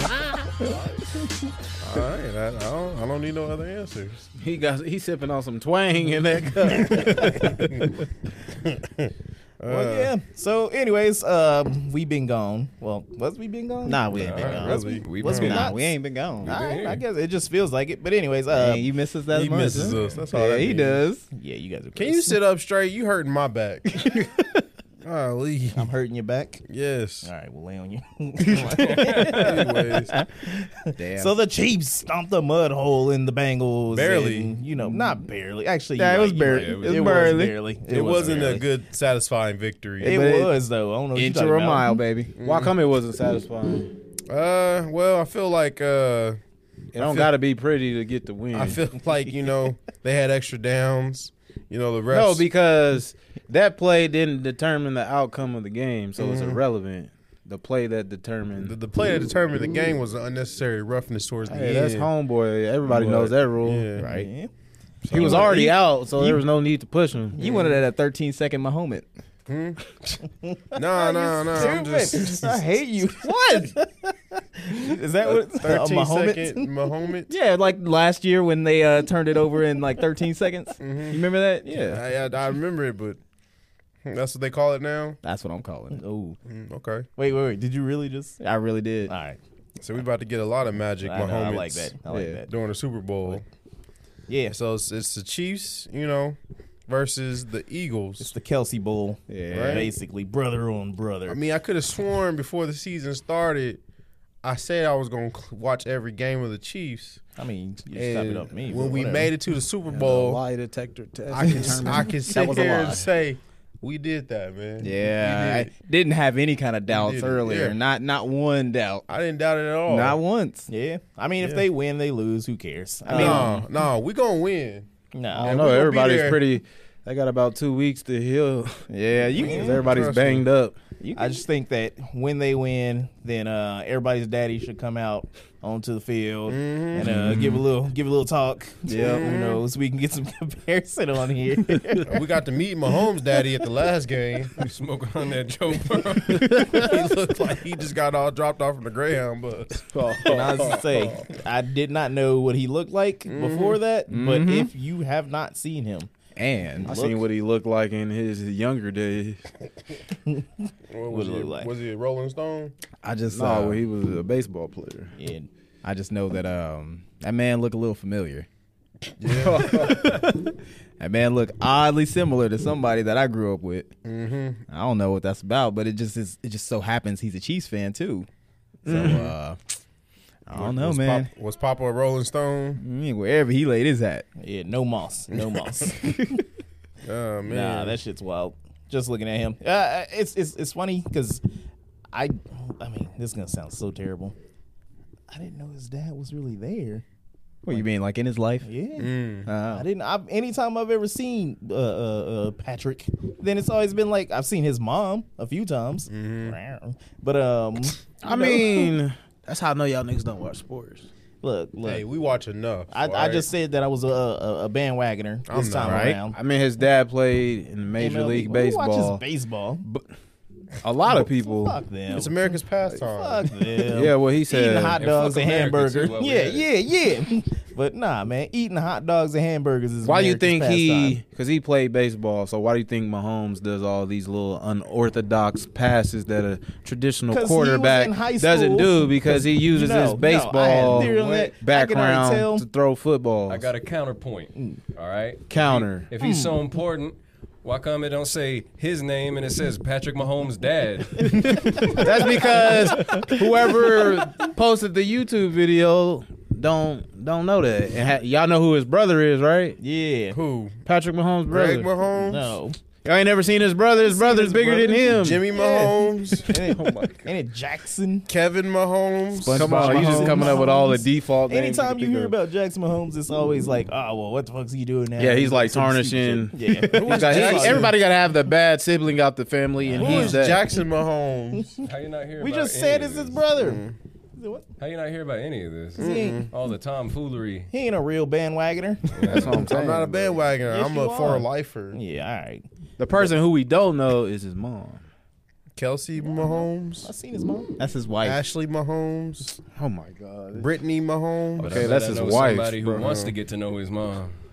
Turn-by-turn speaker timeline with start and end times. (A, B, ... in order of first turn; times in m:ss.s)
0:01.8-0:04.2 A
0:04.4-0:07.4 B
0:07.0-0:07.8 A
0:08.6-0:09.1 A
0:09.6-0:10.1 A
0:09.7-0:18.9 C
0:13.8-0:16.5 D
0:14.1-0:15.7 E
0:14.3-0:15.6 A
0:16.4-0:17.0 E
0:18.5-0:21.2 D
0:19.3-0:21.0 A
0:19.9-0:20.2 E
0:20.2-0:20.7 C
0:21.3-0:22.4 C
0:21.9-0:24.2 A
0:25.0-0:25.9 A
0:25.8-0:26.6 C
0:26.7-0:27.3 A
0:27.2-0:38.7 C
0:28.6-0:29.4 E
0:29.2-0:30.1 A
0:31.0-0:31.3 D
0:33.9-0:34.6 A
0:36.0-0:37.6 D
0:36.4-0:37.3 E
0:37.8-0:40.2 A
0:40.0-0:42.0 C
0:40.0-0:40.5 D
0:41.1-0:42.3 D
0:42.4-0:42.8 A
0:42.4-0:43.9 B
0:44.3-0:46.4 A
0:46.9-0:48.8 B
0:47.0-0:47.3 A
0:48.5-0:52.5 A
0:52.1-0:58.8 B
0:56.2-0:56.6 A
0:58.6-1:02.1 A
1:01.4-1:03.9 B
1:02.8-1:04.2 A
1:04.0-1:04.5 C
1:05.0-1:05.7 A
1:05.1-1:07.4 B
1:05.1-1:06.4 C
1:07.4-1:09.1 D
1:07.4-1:07.8 A
1:09.5-1:10.1 A
1:10.4-1:16.7 C
1:10.7-1:12.6 A
1:11.5-1:11.8 D
1:13.2-1:13.8 D
1:15.2-1:17.3 A
1:17.3-1:22.0 D
1:20.8-1:23.2 A
1:24.0-1:25.2 A
1:25.2-1:26.4 D
1:25.9-1:26.3 C
1:26.5-1:27.1 A
1:27.2-1:28.4 C
1:28.4-1:29.1 D
1:29.1-1:29.4 C
1:29.8-1:31.9 A
1:31.0-1:32.5 C
1:32.5-1:33.4 A
1:34.3-1:34.5 C
1:34.5-1:38.3 A
1:38.2-1:41.4 C
1:39.3-1:39.9 D
1:39.5-1:39.9 A
1:41.3-1:43.8 A
1:44.4-1:47.2 A
1:47.4-1:49.3 C
1:47.9-1:50.4 A
1:49.8-1:53.1 B
1:51.3-1:55.7 A
1:54.8-1:59.0 D
1:56.9-1:57.8 A
1:59.1-2:00.2 A
1:59.9-2:00.7 D
2:00.7-2:03.6 C
2:03.1-2:03.6 D
2:03.1-2:06.4 A
2:05.1-2:05.6 C
2:05.4-2:10.8 B
2:08.9-2:09.8 D
2:09.4-2:09.8 C
2:09.5-2:10.4 A
2:11.0-2:11.4 D
2:11.2-2:22.1 C
2:16.5-2:17.6 A
2:18.8-2:19.3 D
2:19.0-2:19.6 A
2:22.0-2:24.6 A
2:24.6-2:26.9 E
2:26.4-2:29.8 A
2:29.8-2:31.1 B
2:30.2-2:36.1 C
2:33.2-2:33.8 A
2:34.1-2:34.7 D
2:36.4-2:36.9 D
2:36.8-2:37.2 C
2:36.8-2:39.4 B
2:40.9-2:42.7 A
2:41.1-2:41.7 C
2:43.0-2:43.8 D
2:43.3-2:45.1 B
2:45.2-2:45.5 C
2:45.8-2:48.5 D
2:49.2-2:50.2 A
2:49.3-2:50.0 B
2:49.6-2:50.3 D
2:51.0-2:53.9 D
2:54.0-2:54.6 A
2:54.7-2:58.3 D
2:58.8-2:59.6 D
2:58.9-2:59.3 B
2:58.9-2:59.3 A
3:00.5-3:01.3 D
3:00.5-3:02.8 A
3:02.8-3:04.2 D
3:04.4-3:06.4 C
3:05.3-3:05.6 A
3:07.0-3:08.0 A
3:07.5-3:11.4 C
3:12.1-3:14.3 C
3:15.3-3:17.0 C
3:17.6-3:18.7 D
3:18.6-3:19.1 C
3:19.0-3:19.5 A
3:19.4-3:19.8 D
3:19.6-3:28.6 C
3:26.1-3:26.6 A
3:28.2-3:31.1 B
3:31.4-3:32.0 C
3:31.8-3:33.5 A
3:32.9-3:36.4 C
3:35.5-3:36.0 A
3:35.8-3:36.2 D
3:36.3-3:39.2 B
3:38.0-3:39.8 C
3:40.8-3:41.8 B
3:41.1-3:51.2 C
3:42.1-3:43.5 A
3:43.9-3:45.0 B
3:45.0-3:46.7 E
3:50.0-4:03.7 B
3:57.3-4:02.6 C
4:00.8-4:01.5 D
4:03.5-4:12.0 E
4:05.5-4:06.1 B
4:06.2-4:06.6 C
4:11.8-4:19.8 B
4:12.7-4:13.3 D
4:19.8-4:20.4 C
4:20.3-4:20.8 A
4:20.8-4:21.9 B
4:21.5-4:22.5 A
4:22.2-4:22.8 C
4:23.0-4:25.5 B
4:24.0-4:28.3 C
4:25.1-4:26.5 A
4:26.6-4:27.3 B
4:28.3-4:29.8 A
4:29.4-4:32.3 B
4:29.5-4:30.5 D
4:29.5-4:37.9 C
4:35.2-4:40.6 B
4:36.9-4:37.9 A
4:39.9-4:41.8 A
4:40.0-4:40.6 C
4:41.8-4:43.4 E
4:42.4-4:43.8 C
4:43.6-4:44.0 A
4:44.4-4:44.6 C
4:44.8-4:47.7 E
4:46.0-4:46.5 C
4:46.0-4:46.5 A
4:47.7-4:49.1 C
4:49.1-4:49.7 E
4:49.2-4:50.4 B
4:49.3-4:52.0 A
4:50.7-4:52.6 C
4:53.0-4:55.0 B
4:55.8-4:57.1 A
4:57.0-4:57.7 C
4:57.8-4:58.4 D
4:58.2-4:59.6 A
4:59.7-5:00.7 B
5:00.5-5:03.3 A
5:01.6-5:04.3 E
5:01.6-5:03.1 B